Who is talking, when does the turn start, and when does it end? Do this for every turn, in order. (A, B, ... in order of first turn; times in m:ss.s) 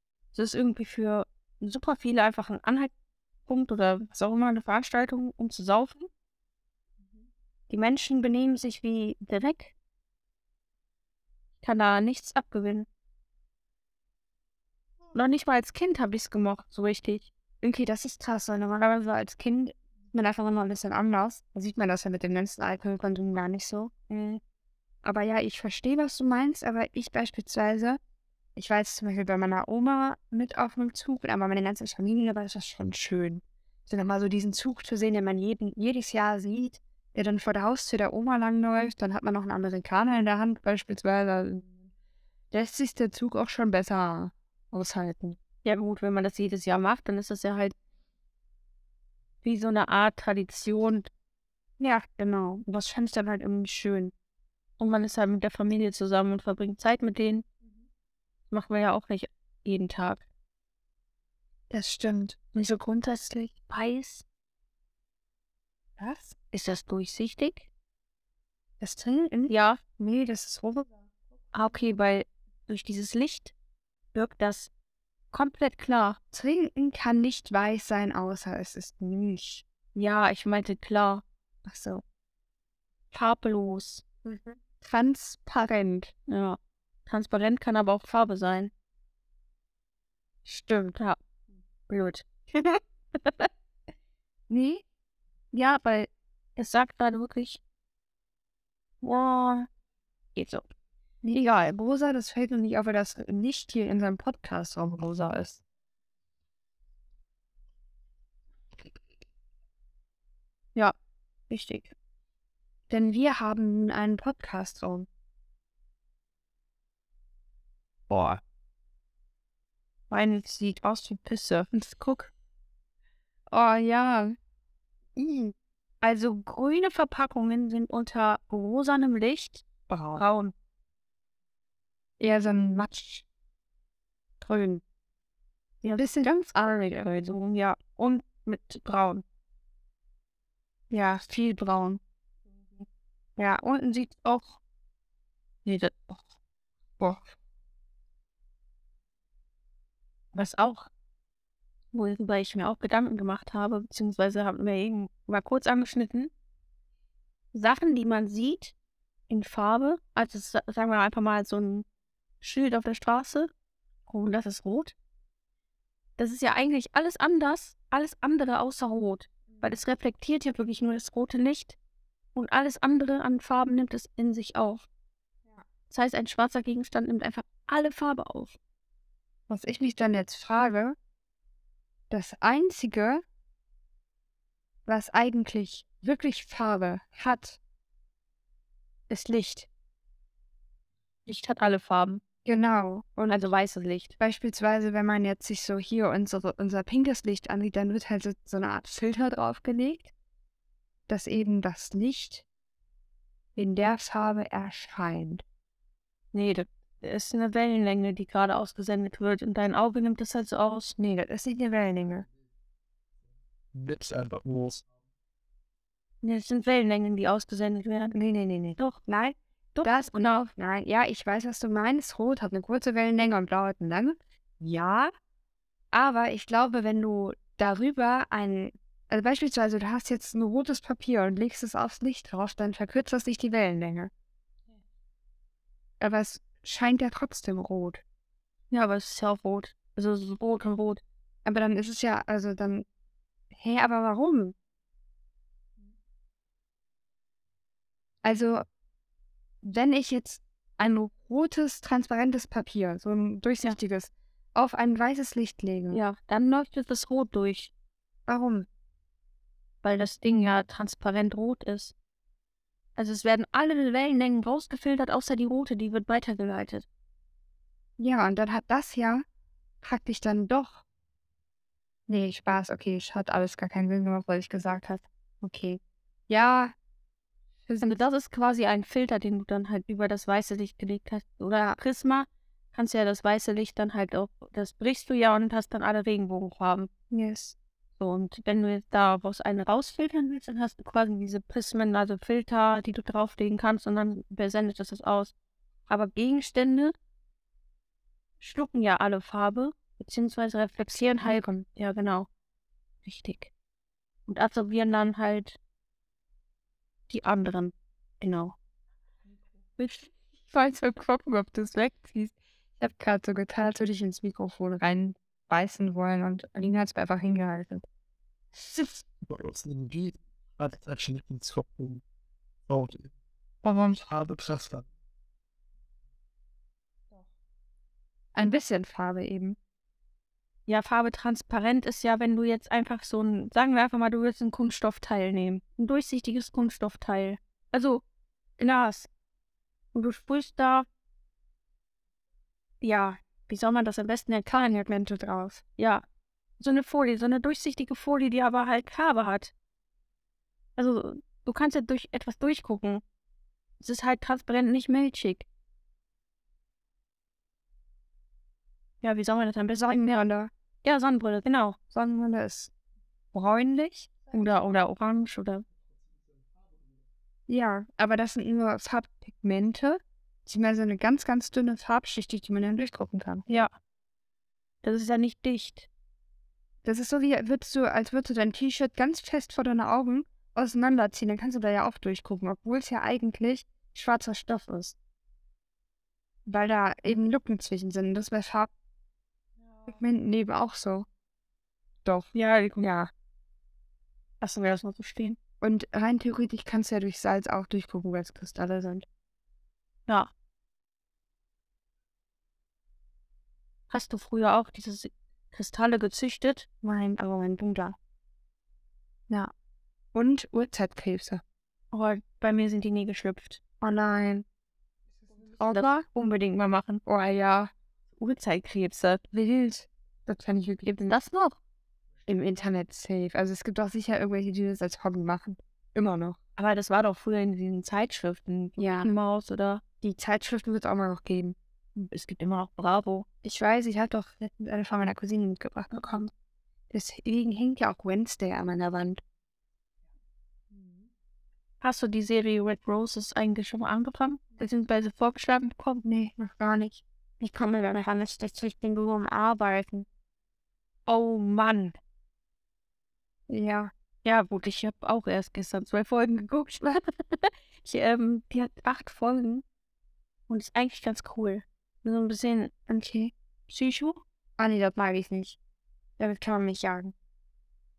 0:00.3-0:02.9 A
0:03.5-0:06.1 A
0:07.7-0:09.7 A
0:11.6-0:12.9 A
0:15.1-0:17.3 A
0:17.6-0:23.9 B
0:24.1-0:24.4 A
0:25.0-0:28.0 B
0:28.6-0:41.7 B
0:42.5-0:45.4 B
0:45.6-0:47.7 A
0:49.4-0:51.1 A
0:51.8-0:54.1 B
0:54.8-0:57.4 A
0:58.5-1:00.2 A
1:01.7-1:03.6 B
1:03.5-1:04.2 A
1:06.0-1:06.4 B
1:06.5-1:07.7 A
1:08.8-1:10.9 B
1:09.5-1:09.8 A
1:11.5-1:13.5 A
1:14.1-1:14.7 A
1:15.3-1:16.2 A
1:16.3-1:19.6 B
1:19.9-1:21.2 A
1:21.6-1:22.0 B
1:23.1-1:24.0 A
1:24.2-1:26.1 B
1:26.3-1:28.7 A
1:30.4-1:31.0 B
1:31.9-1:33.5 A
1:34.5-1:34.8 B
1:35.5-1:36.0 B
1:36.6-1:37.6 A
1:39.0-1:39.7 A
1:40.3-1:40.6 A
1:41.2-1:45.6 B
1:51.5-1:51.9 A
1:52.9-1:55.1 B
2:00.1-2:02.3 A
2:03.5-2:04.4 B
2:05.2-2:05.5 B
2:06.0-2:10.5 A
2:09.9-2:10.2 B
2:12.2-2:13.2 B
2:14.4-2:14.8 B
2:15.8-2:16.1 A
2:16.0-2:17.0 B
2:16.9-2:19.2 A
2:20.9-2:22.0 A
2:23.4-2:24.6 A
2:25.6-2:26.2 A
2:27.0-2:27.2 B
2:30.3-2:30.9 A
2:31.9-2:36.3 A
2:37.5-2:38.7 A
2:39.3-2:41.8 A
2:42.4-2:43.5 A
2:44.1-2:44.9 A
2:46.2-2:51.8 A
2:49.5-2:49.8 B
2:52.3-2:54.9 A
2:55.9-2:58.6 A
2:59.5-3:01.0 B
3:02.1-3:03.2 B
3:04.8-3:07.6 B
3:09.1-3:09.7 A
3:11.3-3:12.2 A
3:12.4-3:13.4 B
3:13.3-3:14.2 A
3:14.2-3:20.1 B
3:21.1-3:22.4 B
3:23.6-3:25.4 B
3:26.3-3:30.9 A
3:31.0-3:32.2 B
3:33.7-3:34.8 C
3:36.2-3:38.2 A
3:38.1-3:45.1 B
3:39.7-3:40.5 A
3:45.9-3:54.1 B
3:56.0-3:58.0 B
3:58.7-4:01.0 A
4:01.4-4:02.8 B
4:03.5-4:04.5 B
4:08.2-4:08.6 B
4:09.6-4:16.0 B
4:15.9-4:17.7 A
4:18.3-4:18.7 B
4:19.8-4:21.9 A
4:23.0-4:26.9 A
4:28.0-4:29.2 B
4:29.8-4:30.8 B
4:32.1-4:36.7 B
4:37.7-4:38.0 B
4:37.8-4:46.9 A
4:47.1-4:47.6 B
4:48.0-4:55.3 A
4:55.9-4:56.9 A
4:58.4-5:02.3 A
5:00.8-5:01.6 B
5:03.0-5:03.5 A
5:04.3-5:05.6 A
5:07.1-5:08.6 A
5:09.8-5:17.8 B
5:18.6-5:19.0 B
5:19.2-5:22.0 C
5:22.7-5:23.1 C
5:23.6-5:24.8 C
5:28.3-5:29.6 B
5:30.7-5:38.0 A
5:38.6-5:39.1 A
5:39.9-5:40.8 A
5:42.8-5:44.5 A
5:44.4-5:45.6 B
5:45.8-5:46.0 A
5:46.6-5:49.5 A
5:50.8-5:53.0 A
5:53.8-5:55.4 A
5:59.0-5:59.8 A
5:59.7-6:00.5 B
6:00.8-6:01.8 A
6:01.9-6:02.7 B
6:03.3-6:04.4 B
6:04.3-6:05.6 A
6:07.5-6:13.4 B
6:13.5-6:13.7 A
6:14.8-6:15.9 A
6:16.8-6:25.0 B
6:26.4-6:28.7 B
6:29.9-6:31.1 B
6:32.0-6:33.1 B
6:32.3-6:32.9 A
6:34.4-6:35.4 A
6:35.6-6:39.0 B
6:43.9-6:46.7 A
6:46.8-6:48.0 B
6:50.1-6:51.4 B
6:51.9-6:53.6 A
6:53.8-6:54.4 B
6:55.2-6:55.8 B
6:55.6-6:57.0 A
6:57.0-6:57.7 B
6:58.2-6:59.2 A
6:59.3-7:00.9 B
7:00.8-7:01.6 A
7:02.2-7:06.4 B
7:06.6-7:09.8 A
7:08.8-7:09.1 B
7:10.0-7:11.6 B
7:12.0-7:13.3 A
7:13.4-7:16.3 B
7:16.9-7:19.2 B
7:21.8-7:26.0 A
7:26.0-7:30.1 B
7:31.1-7:32.0 A
7:33.5-7:33.9 B
7:34.2-7:39.6 A
7:40.5-7:42.7 A
7:42.9-7:43.3 B
7:43.7-7:44.2 A
7:44.6-7:45.6 B
7:46.2-7:47.1 B